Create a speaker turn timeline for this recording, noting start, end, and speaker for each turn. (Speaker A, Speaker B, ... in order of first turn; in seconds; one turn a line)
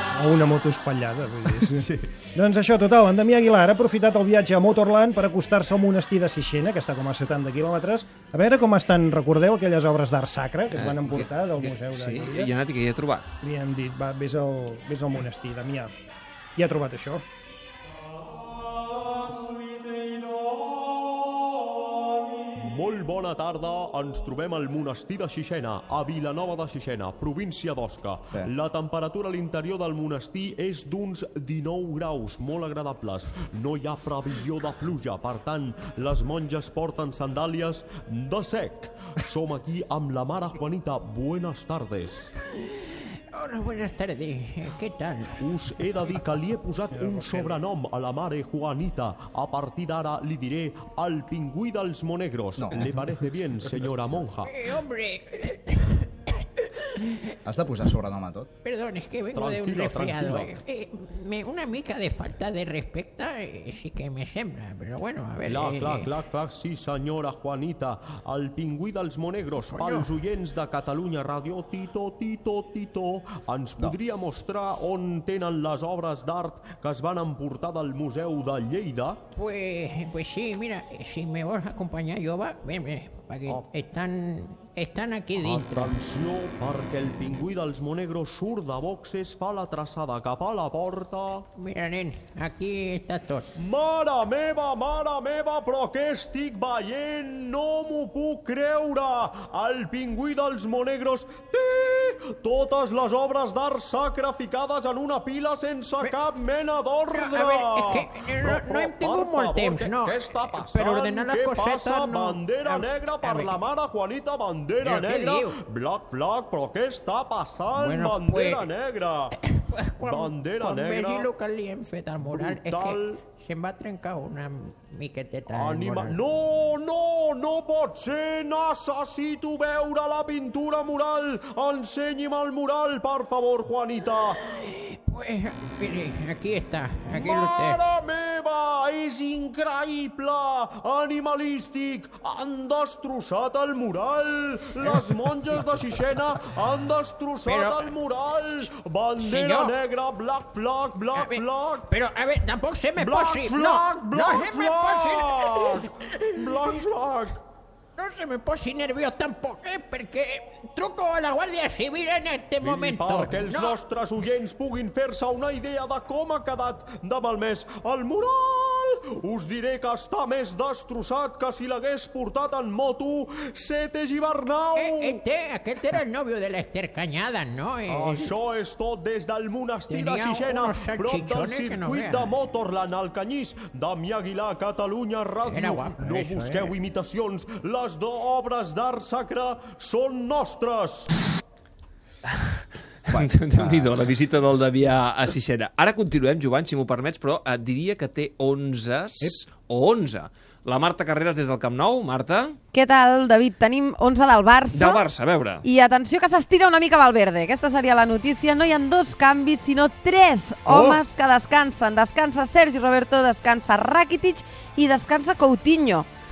Speaker A: 0.1-12.5
Speaker B: 1.7-2.0
Speaker C: 10.7-13.3
Speaker A: 13.4-15.9
Speaker A: 16.6-17.2
Speaker D: 22.5-42.3
Speaker E: 43.3-45.3
Speaker D: 45.4-54.5
Speaker A: 46.9-47.6
Speaker B: 52.6-52.9
Speaker E: 54.4-56.4
Speaker B: 57.4-58.5
Speaker E: 58.6-66.1
Speaker D: 59.3-60.5
Speaker D: 65.4-79.2
Speaker E: 69.6-70.1
Speaker E: 79.3-86.0
Speaker D: 85.3-91.4
Speaker E: 91.5-93.5
Speaker D: 93.6-119.3
Speaker E: 107.1-113.6
Speaker E: 114.8-115.6
Speaker E: 117.7-118.7
Speaker E: 119.3-126.2
Speaker D: 120.0-121.3
Speaker D: 122.3-123.2
Speaker D: 125.5-134.4
Speaker E: 134.4-137.8
Speaker D: 137.1-151.9
Speaker E: 144.8-145.6
Speaker E: 147.4-147.9
Speaker E: 149.2-149.8
Speaker E: 151.1-156.9
Speaker D: 152.9-157.4
Speaker E: 157.9-163.8
Speaker D: 162.6-175.2
Speaker E: 174.8-178.3
Speaker D: 177.9-191.1
Speaker E: 179.9-182.3
Speaker E: 185.4-186.8
Speaker C: 193.1-202.6
Speaker B: 193.1-194.0
Speaker F: 202.7-205.0
Speaker C: 204.7-205.6
Speaker F: 205.6-216.1
Speaker C: 210.7-211.0